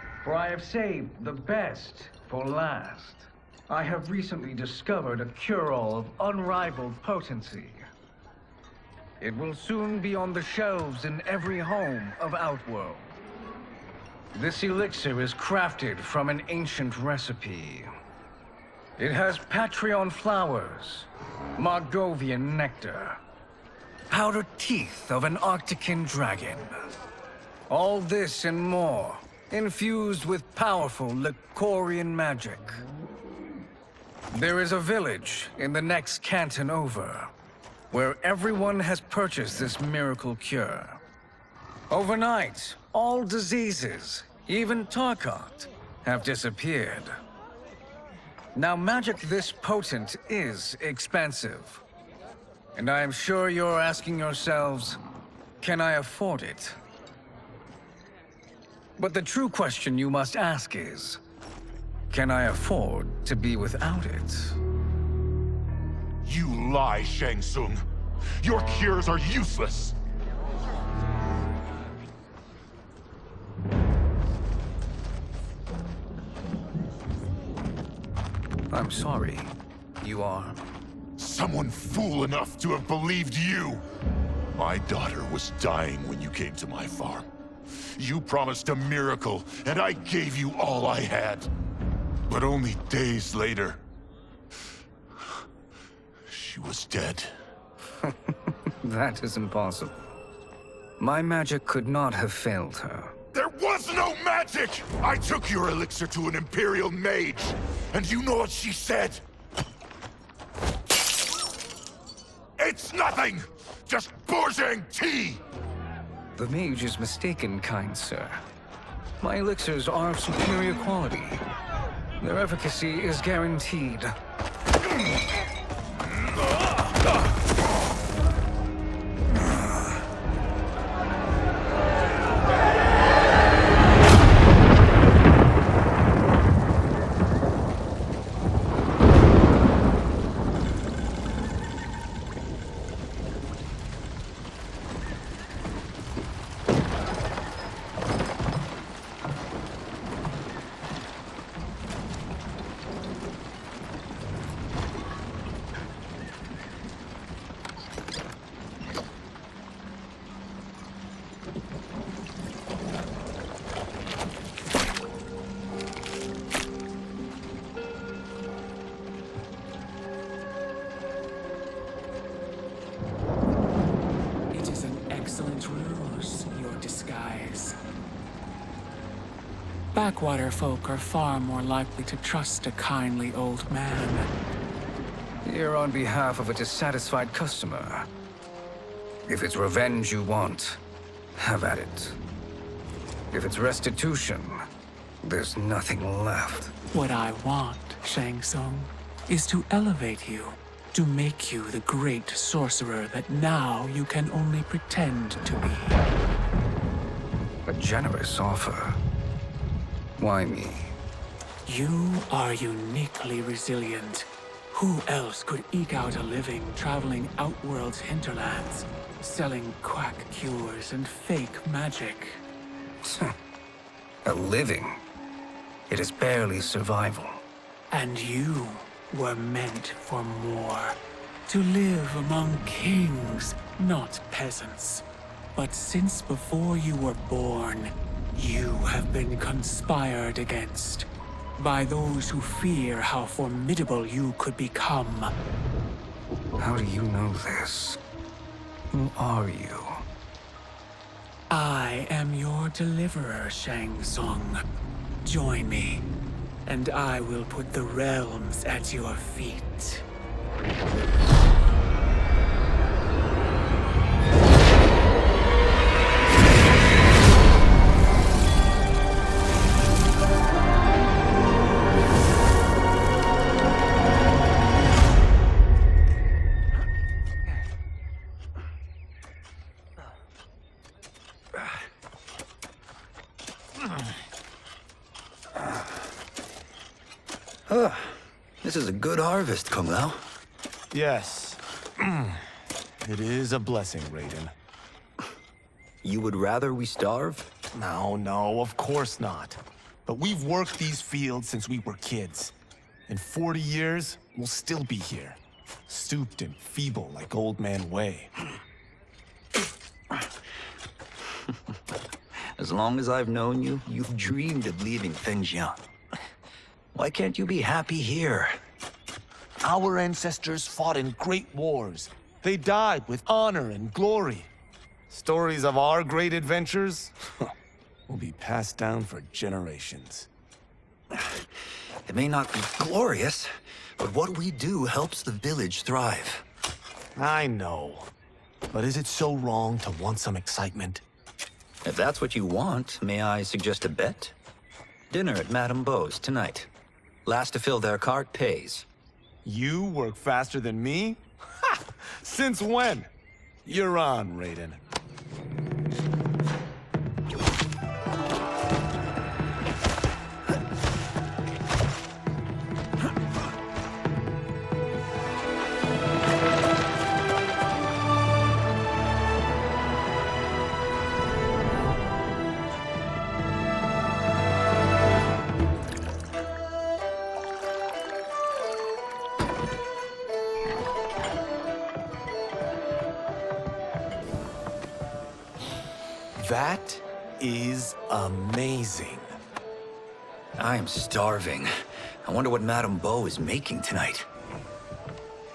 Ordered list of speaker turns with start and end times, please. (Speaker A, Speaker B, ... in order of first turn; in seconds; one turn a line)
Speaker A: 0.2-7.9
Speaker A: 9.2-13.1
Speaker A: 14.3-17.9
Speaker A: 19.0-23.2
Speaker A: 24.1-26.9
Speaker A: 27.7-32.8
Speaker A: 34.3-37.3
Speaker A: 37.9-41.0
Speaker A: 41.9-47.2
Speaker A: 48.5-51.8
Speaker A: 52.8-55.0
Speaker A: 55.6-56.8
Speaker A: 59.0-61.2
Speaker A: 62.1-64.6
Speaker B: 66.2-67.8
Speaker B: 68.4-70.0
Speaker A: 78.7-80.6
Speaker B: 81.2-83.8
Speaker B: 84.5-87.3
Speaker B: 88.0-91.5
Speaker B: 92.3-93.8
Speaker B: 96.3-97.3
Speaker A: 98.0-100.0
Speaker A: 101.0-103.1
Speaker B: 103.3-109.2
Speaker B: 112.6-115.4
Speaker A: 116.4-118.4
Speaker A: 119.2-121.5
Speaker A: 122.2-124.1
Speaker C: 174.5-177.8
Speaker C: 179.9-184.3
Speaker A: 185.4-188.1
Speaker A: 189.3-190.8
Speaker A: 191.4-192.2
Speaker A: 193.3-194.7
Speaker A: 195.2-196.7
Speaker C: 196.9-206.0
Speaker A: 207.7-209.0
Speaker A: 210.2-210.9
Speaker C: 211.7-222.4
Speaker A: 223.0-223.3
Speaker A: 224.2-225.0
Speaker A: 225.9-227.4
Speaker C: 227.9-235.0
Speaker C: 235.6-245.3
Speaker A: 246.6-248.0
Speaker A: 248.9-250.0
Speaker C: 251.5-254.6
Speaker C: 255.2-256.1
Speaker C: 256.7-260.1
Speaker D: 287.7-290.2
Speaker E: 290.9-292.5
Speaker E: 293.0-294.5
Speaker D: 296.0-297.5
Speaker E: 297.7-302.5
Speaker E: 303.1-308.3
Speaker D: 312.6-315.8
Speaker D: 316.9-318.6
Speaker E: 319.6-324.5
Speaker E: 325.1-327.1
Speaker E: 328.1-330.3
Speaker D: 331.1-331.4
Speaker D: 332.1-336.4
Speaker E: 337.2-338.1
Speaker E: 338.7-341.0
Speaker D: 341.8-344.3
Speaker D: 345.1-346.7
Speaker D: 347.2-348.9
Speaker E: 349.4-353.1
Speaker E: 353.6-354.8
Speaker E: 386.4-389.3
Speaker D: 390.6-391.7
Speaker D: 392.2-394.3